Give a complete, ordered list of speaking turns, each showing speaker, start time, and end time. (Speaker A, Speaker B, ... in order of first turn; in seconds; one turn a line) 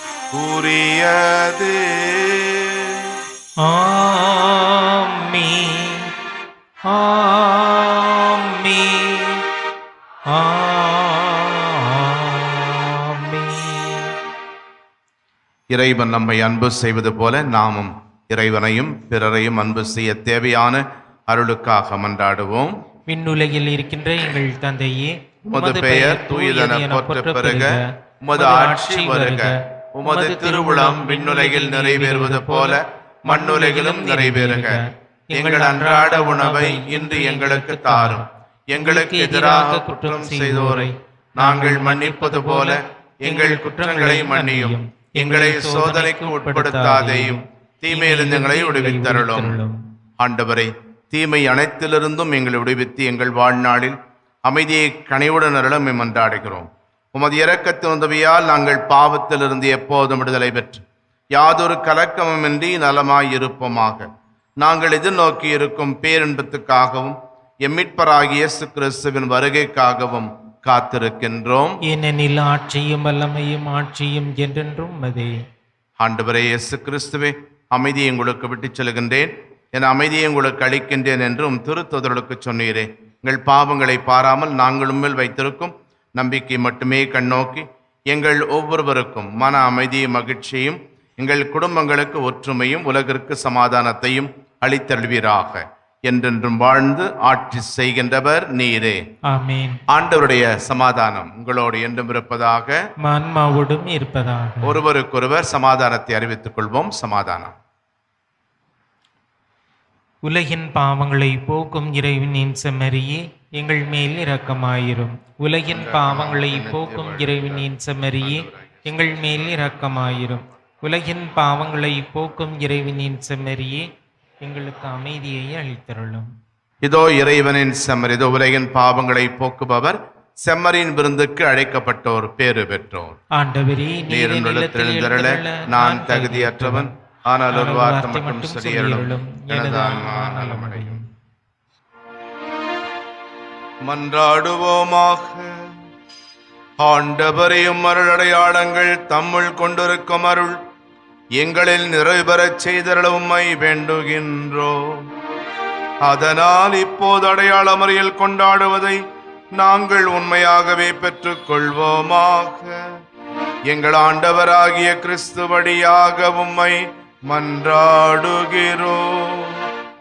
Speaker A: 0.3-3.2
Speaker B: 3.6-6.1
Speaker B: 6.9-9.4
Speaker B: 10.3-14.1
Speaker A: 15.7-22.7
Speaker B: 23.1-38.2
Speaker A: 25.5-34.8
Speaker A: 35.4-49.6
Speaker B: 38.8-49.8
Speaker A: 50.2-60.8
Speaker A: 61.4-64.1
Speaker A: 64.6-71.8
Speaker B: 71.9-75.3
Speaker A: 76.0-99.0
Speaker B: 99.3-99.8
Speaker A: 99.9-102.8
Speaker B: 103.0-104.8
Speaker A: 104.6-107.5
Speaker B: 110.2-123.9
Speaker A: 115.7-117.7
Speaker A: 118.2-118.8
Speaker B: 124.4-126.3
Speaker A: 126.8-133.2
Speaker B: 133.4-136.9
Speaker A: 134.1-141.0
Speaker B: 137.5-141.0
Speaker A: 143.8-145.7
Speaker A: 146.8-150.6
Speaker A: 151.4-155.1
Speaker A: 156.0-159.0
Speaker A: 159.6-162.9
Speaker A: 163.7-169.7